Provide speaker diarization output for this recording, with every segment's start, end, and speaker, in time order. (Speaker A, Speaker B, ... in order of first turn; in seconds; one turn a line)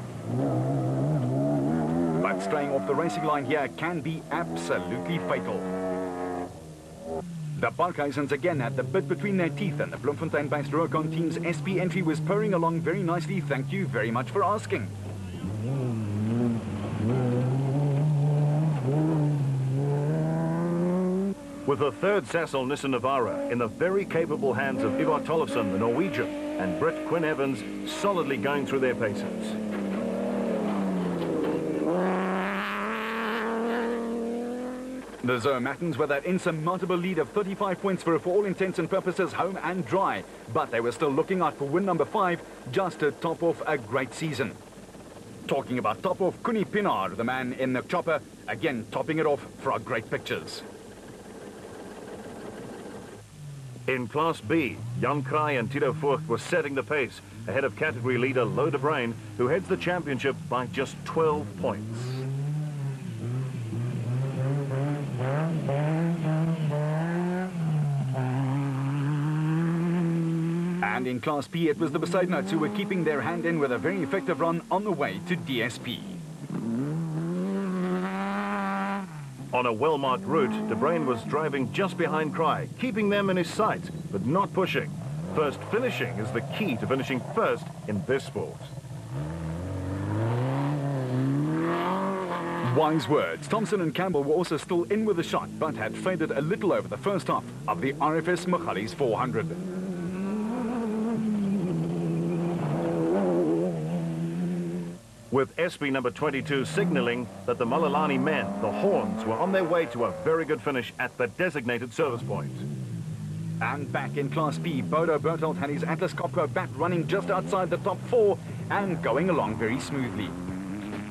Speaker A: 2.2-5.7
Speaker A: 7.5-14.9
Speaker B: 21.6-29.6
Speaker A: 35.2-44.6
Speaker A: 45.5-50.6
Speaker B: 53.9-62.2
Speaker A: 70.8-76.2
Speaker B: 79.5-88.7
Speaker A: 92.6-99.6
Speaker B: 105.3-112.6
Speaker A: 113.6-120.3